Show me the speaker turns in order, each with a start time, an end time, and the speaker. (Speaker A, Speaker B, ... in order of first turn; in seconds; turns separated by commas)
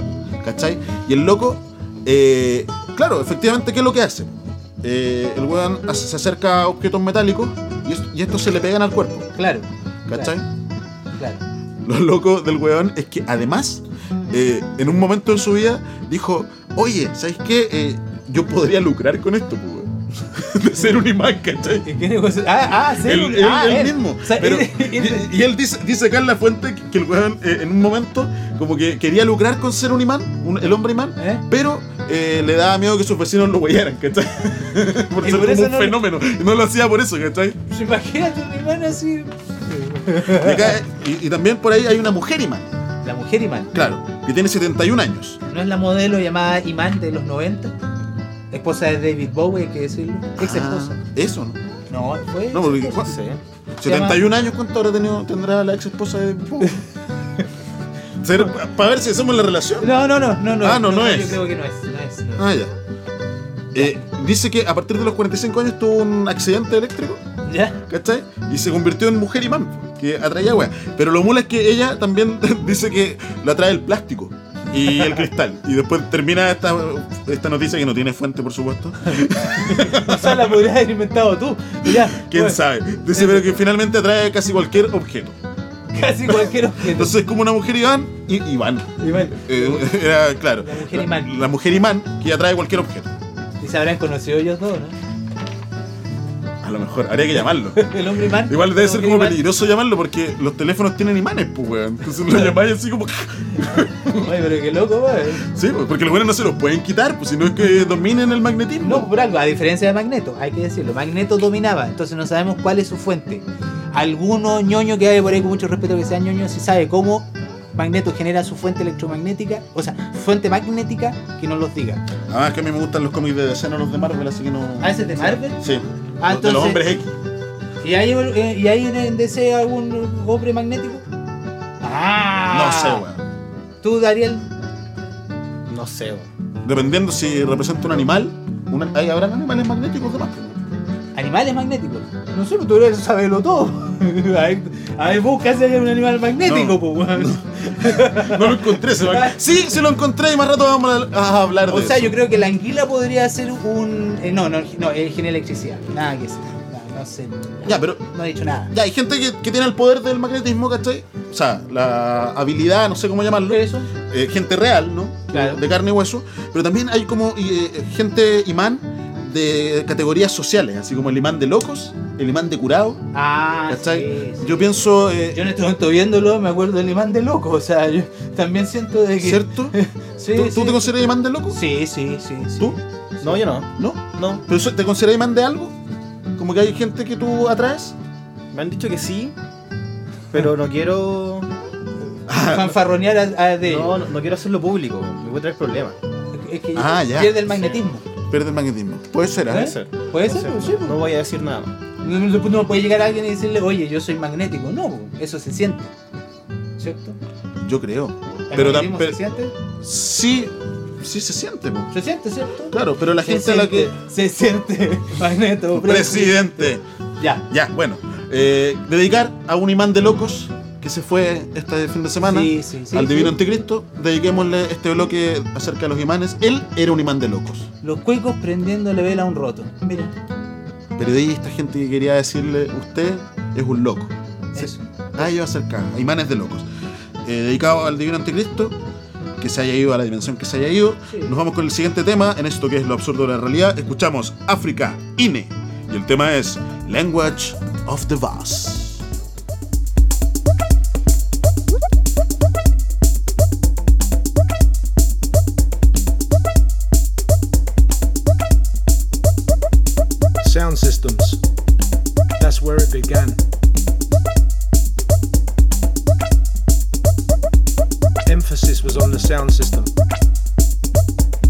Speaker A: 0.4-9.3, Speaker B: 9.3-10.3, Speaker A: 10.1-10.4, Speaker B: 11.2-11.4, Speaker A: 11.8-21.9, Speaker B: 21.8-25.3, Speaker A: 23.0-37.6, Speaker B: 31.2-31.4, Speaker B: 35.2-36.0, Speaker B: 37.7-40.7, Speaker A: 40.2-42.7, Speaker B: 43.0-43.7, Speaker A: 43.7-45.4, Speaker B: 45.5-47.7, Speaker B: 48.5-51.0, Speaker A: 50.4-51.6, Speaker B: 51.9-53.1, Speaker A: 52.5-53.1, Speaker C: 53.0-53.4, Speaker A: 53.8-56.8, Speaker B: 53.8-54.2, Speaker A: 58.2-61.4, Speaker B: 59.8-62.5, Speaker A: 62.4-62.7, Speaker A: 63.7-67.2, Speaker B: 67.5-67.8, Speaker A: 67.8-80.5, Speaker B: 79.7-83.5, Speaker A: 81.8-85.4, Speaker B: 85.9-87.2, Speaker A: 86.3-93.1, Speaker B: 89.0-89.9, Speaker B: 90.6-91.4, Speaker B: 93.6-94.9, Speaker A: 96.6-104.3, Speaker B: 97.7-99.4, Speaker B: 103.8-105.5, Speaker A: 105.5-109.1, Speaker B: 108.8-122.0, Speaker A: 122.3-127.1, Speaker B: 124.8-125.6, Speaker B: 126.2-126.8, Speaker B: 127.8-131.0, Speaker B: 131.8-133.0, Speaker A: 132.5-133.2, Speaker B: 133.8-134.5, Speaker C: 135.7-136.3, Speaker A: 136.6-140.6, Speaker B: 141.1-149.4, Speaker A: 146.4-152.2, Speaker B: 151.7-158.7, Speaker A: 157.6-158.0, Speaker A: 158.7-173.1, Speaker B: 163.5-163.9, Speaker B: 165.3-165.6, Speaker B: 173.1-174.7, Speaker A: 173.7-175.5, Speaker B: 175.3-180.9, Speaker A: 179.2-179.7, Speaker A: 180.3-181.6, Speaker B: 181.5-183.4, Speaker C: 183.2-184.4, Speaker A: 183.8-185.7, Speaker A: 186.3-187.9, Speaker C: 188.5-189.3, Speaker C: 190.3-191.5, Speaker A: 192.3-192.7, Speaker B: 192.4-194.0, Speaker C: 193.6-195.9, Speaker B: 196.3-198.0, Speaker A: 196.7-197.5, Speaker A: 198.2-199.7, Speaker B: 199.5-201.0, Speaker C: 199.5-201.7, Speaker B: 202.0-205.9, Speaker B: 206.8-207.2, Speaker A: 207.6-209.2, Speaker B: 208.5-209.5, Speaker A: 209.8-211.9, Speaker B: 211.9-217.4, Speaker A: 212.7-213.9, Speaker A: 215.7-216.8, Speaker A: 217.5-227.7, Speaker B: 222.2-223.4, Speaker B: 227.8-230.1, Speaker A: 230.9-236.7, Speaker B: 234.5-234.8, Speaker A: 237.2-238.8, Speaker A: 239.4-249.0, Speaker B: 241.1-241.3, Speaker D: 260.4-261.4, Speaker D: 262.4-263.4, Speaker D: 268.2-269.9